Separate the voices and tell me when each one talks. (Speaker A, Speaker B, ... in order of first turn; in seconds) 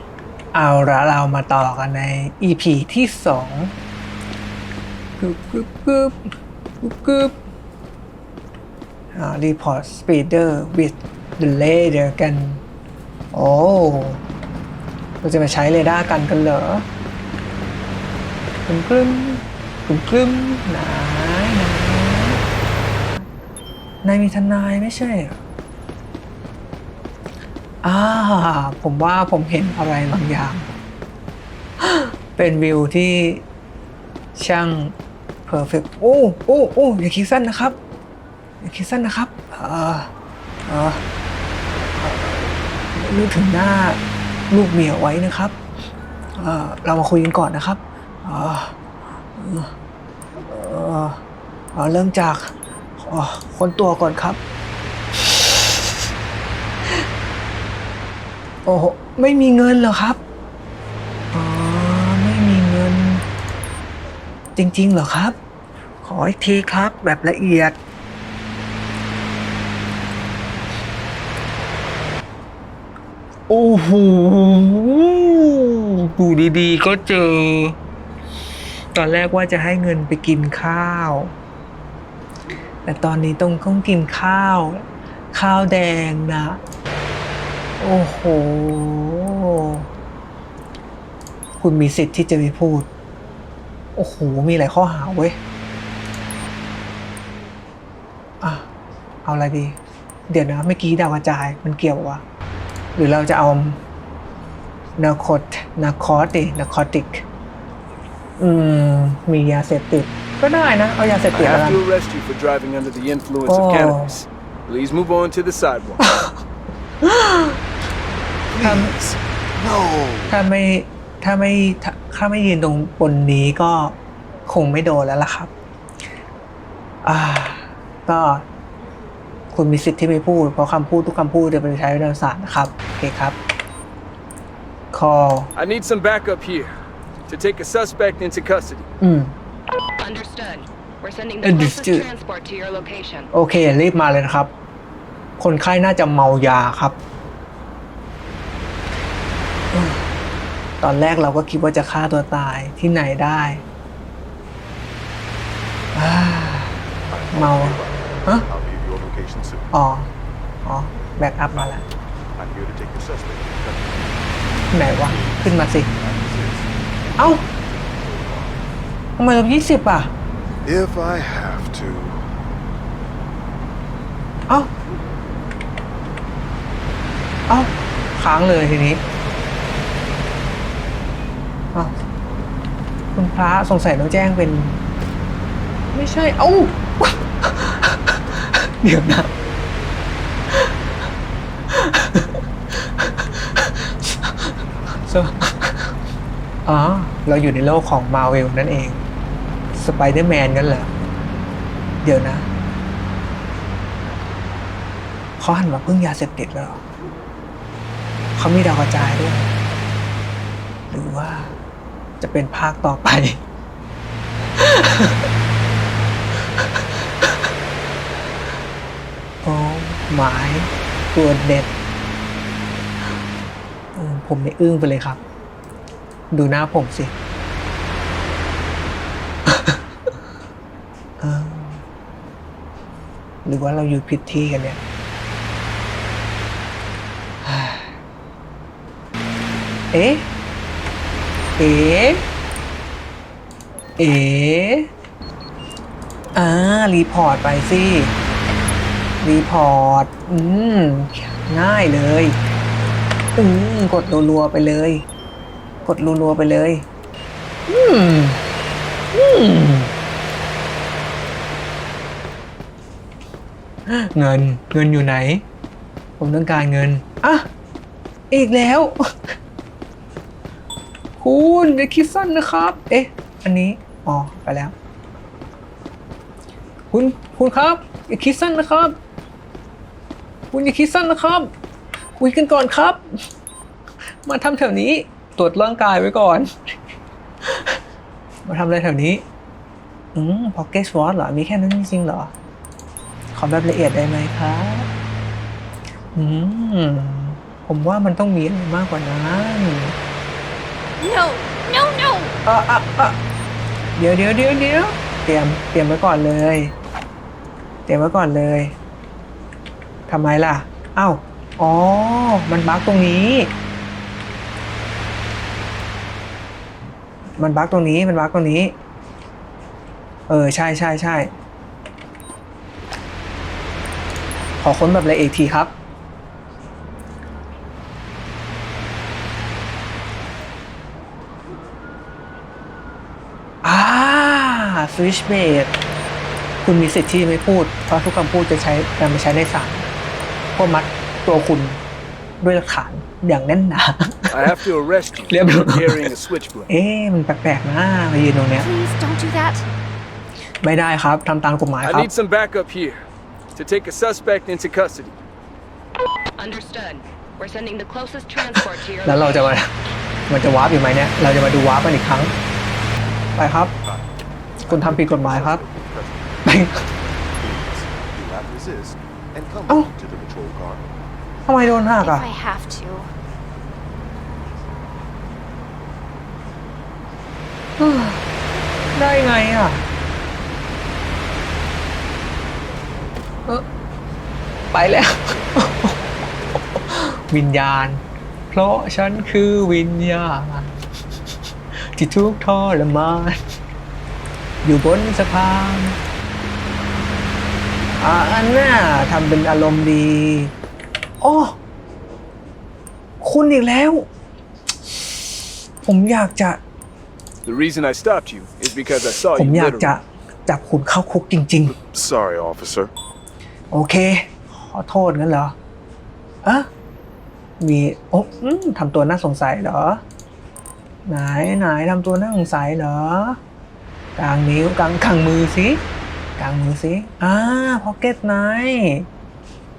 Speaker A: 0.5-3.7, 5.2-6.2, 6.8-7.4, 9.1-12.6, 13.3-14.2, 15.2-16.9, 18.7-22.4, 24.0-25.4, 27.8-30.7, 31.8-33.5, 34.4-35.0, 35.5-37.8, 38.6-40.1, 40.7-41.0, 42.9-45.6, 46.4-48.8, 49.4-49.7, 50.4-51.2, 51.7-54.4, 55.2-55.8, 58.6-60.2, 61.3-63.2, 64.6-65.4, 66.0-67.8, 73.5-77.8, 78.9-81.3, 82.8-86.6, 87.8-89.9, 91.6-92.9, 94.0-95.4, 98.4-98.7, 99.2-99.8, 100.3-102.2, 103.0-103.8, 105.0-107.3, 108.4-111.8, 113.5-114.2, 116.0-116.4, 117.0-117.6, 118.6-119.0, 120.3-125.5, 127.0-128.5, 129.5-133.4, 134.9-135.5, 139.0-139.3, 141.4-142.1, 143.3-144.5, 145.4-147.0, 149.7-150.1, 150.8-153.6, 155.9-156.8, 157.3-158.5, 159.7-160.1, 160.7-161.8, 164.7-165.9, 167.2-167.4, 169.2-170.1, 177.5-179.0, 183.2-184.8, 185.9-189.3, 191.7-195.9, 196.7-199.0, 199.7-200.9, 202.0-202.5, 205.4-206.8, 208.4-209.5, 210.9-211.6, 212.2-213.4, 214.6-215.3, 216.3-217.3, 219.4-221.7, 223.9-225.2, 226.3-227.1, 229.5-229.8, 231.2-231.8, 233.4-234.8, 237.4-238.0, 239.9-240.3, 241.6-242.3, 244.0-244.9, 246.3-248.2, 249.2-252.4, 253.4-255.1, 255.8-256.9, 257.7-258.4, 259.1-259.9, 263.9-265.4, 266.2-267.5, 268.3-269.3, 271.2-274.7, 276.9-279.0, 280.5-281.5, 282.2-283.0, 284.2-286.5, 287.4-287.8, 288.4-289.2, 290.1-292.3, 293.3-294.9, 296.1-300.0, 302.4-303.2, 304.0-306.7, 307.9-308.8, 310.1-313.5, 317.4-318.8, 320.3-321.3, 324.6-325.7, 333.6-335.7, 336.6-339.9, 340.6-341.8, 342.4-344.5, 345.3-346.1, 346.7-348.7, 350.6-352.1, 359.0-359.7, 360.3-362.3, 363.4-363.8, 364.7-365.6, 366.5-366.8, 371.5-372.3, 377.8-378.2, 378.9-379.9, 384.7-386.0, 386.8-390.8, 391.8-393.4, 394.6-396.0, 398.0-400.5, 401.2-401.6, 403.2-404.1, 404.9-406.6, 409.3-411.8, 413.7-415.6, 417.6-420.0, 421.1-423.4, 424.2-425.8, 426.4-429.1
Speaker B: 111.3-116.0, 135.6-136.7, 137.3-138.9, 344.3-346.7, 351.8-355.2, 407.4-409.9
Speaker C: 118.5-120.4, 157.1-159.7, 161.5-161.8, 162.3-168.6, 170.7-172.3, 363.8-370.8, 411.8-412.9
Speaker D: 140.0-143.3, 356.4-359.6
Speaker E: 301.0-302.4, 348.6-349.7, 371.9-373.1